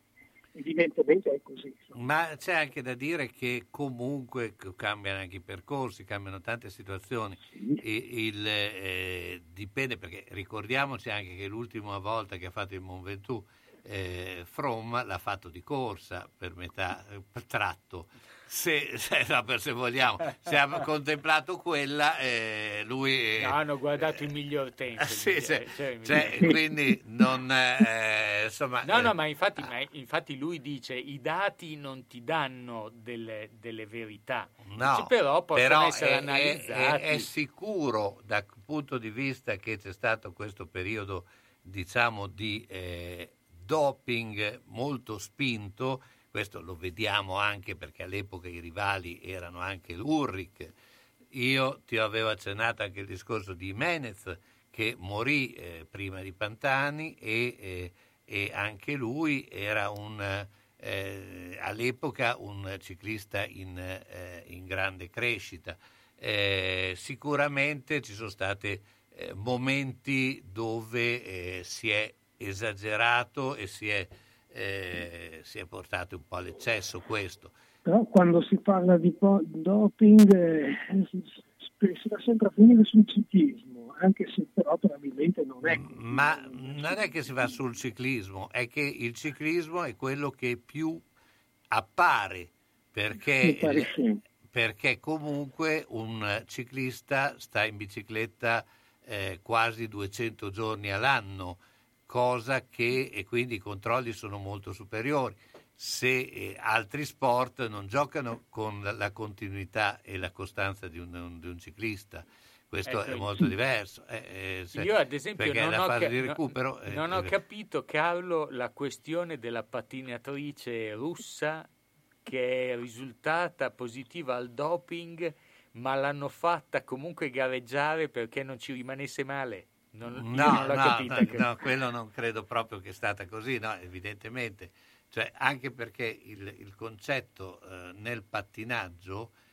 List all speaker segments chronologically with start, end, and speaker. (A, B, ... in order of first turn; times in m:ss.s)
0:00.5-0:02.0 A
0:02.0-0:23.6 B
0:07.5-0:07.8 A
0:23.4-0:26.6 C
0:25.0-0:29.1 B
0:28.8-0:37.3 C
0:34.7-0:50.7 B
0:51.3-1:17.5 B
1:17.8-1:27.1 A
1:25.6-1:31.0 B
1:31.7-1:34.0 B
1:33.4-1:34.2 A
1:34.5-1:57.3 B
1:52.9-1:53.5 C
1:54.7-2:01.7 C
2:02.2-2:11.5 C
2:10.1-2:19.3 B